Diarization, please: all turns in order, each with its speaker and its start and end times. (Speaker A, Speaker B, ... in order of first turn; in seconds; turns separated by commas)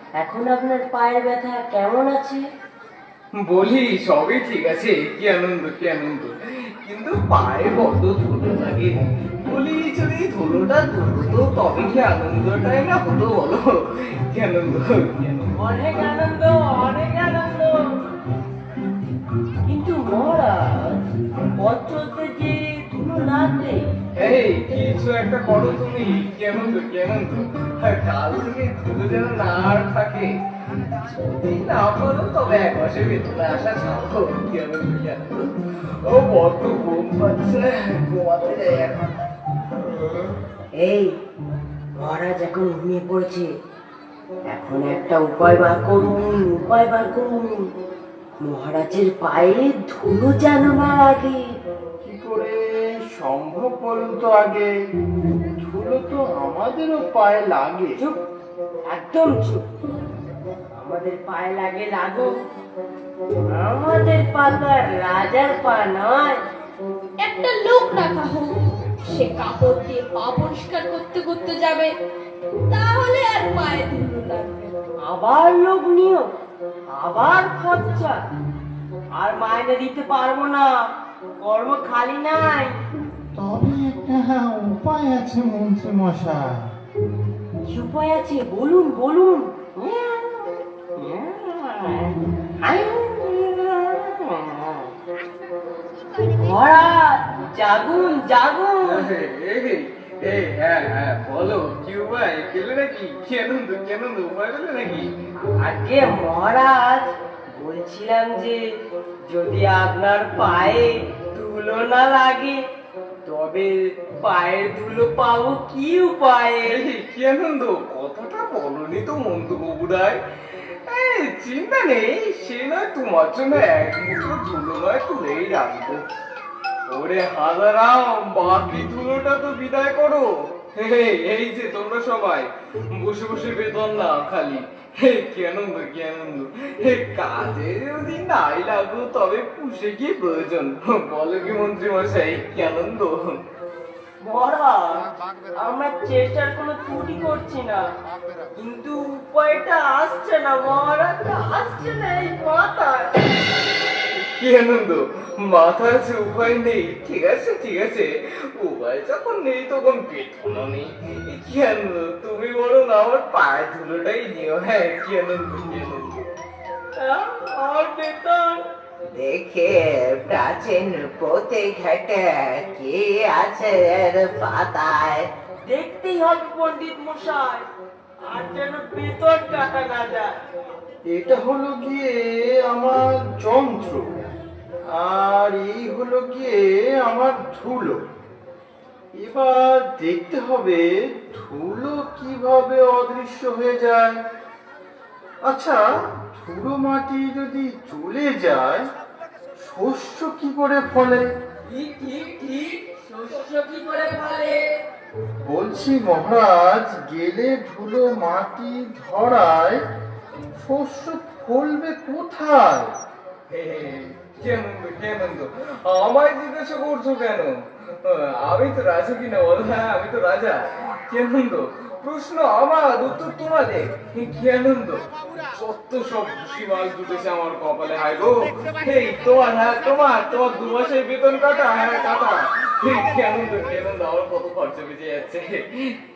Speaker A: 0.2-2.5, Speaker B: 3.4-13.7, Speaker B: 14.3-15.5, Speaker A: 15.5-18.1, Speaker A: 19.7-21.0, Speaker A: 21.6-23.9, Speaker B: 24.2-30.3, Speaker B: 31.4-35.5, Speaker B: 36.0-39.2, Speaker A: 40.8-41.1, Speaker A: 42.0-43.5, Speaker A: 44.5-47.7, Speaker A: 48.4-51.5, Speaker C: 52.0-54.7, Speaker C: 55.3-57.9, Speaker A: 58.9-59.7, Speaker A: 60.8-62.3, Speaker A: 63.5-66.4, Speaker D: 67.2-71.9, Speaker D: 72.7-74.7, Speaker A: 75.0-76.3, Speaker A: 76.9-78.2, Speaker A: 79.2-80.7, Speaker A: 81.4-82.8, Speaker C: 83.3-86.7, Speaker A: 87.7-94.9, Speaker A: 96.2-99.1, Speaker B: 98.8-105.1, Speaker A: 105.5-108.6, Speaker A: 109.3-112.6, Speaker A: 113.2-116.8, Speaker B: 116.7-126.0, Speaker B: 126.9-143.3, Speaker A: 144.2-147.8, Speaker A: 148.6-153.4, Speaker B: 154.4-166.3, Speaker A: 167.0-168.6, Speaker E: 169.1-175.3, Speaker A: 175.7-177.6, Speaker A: 178.3-180.3, Speaker C: 181.1-184.2, Speaker C: 184.9-188.0, Speaker C: 189.2-194.2, Speaker C: 195.4-198.9, Speaker C: 199.6-201.2, Speaker A: 201.7-204.7, Speaker C: 205.4-209.8, Speaker C: 210.6-212.9, Speaker B: 213.5-236.0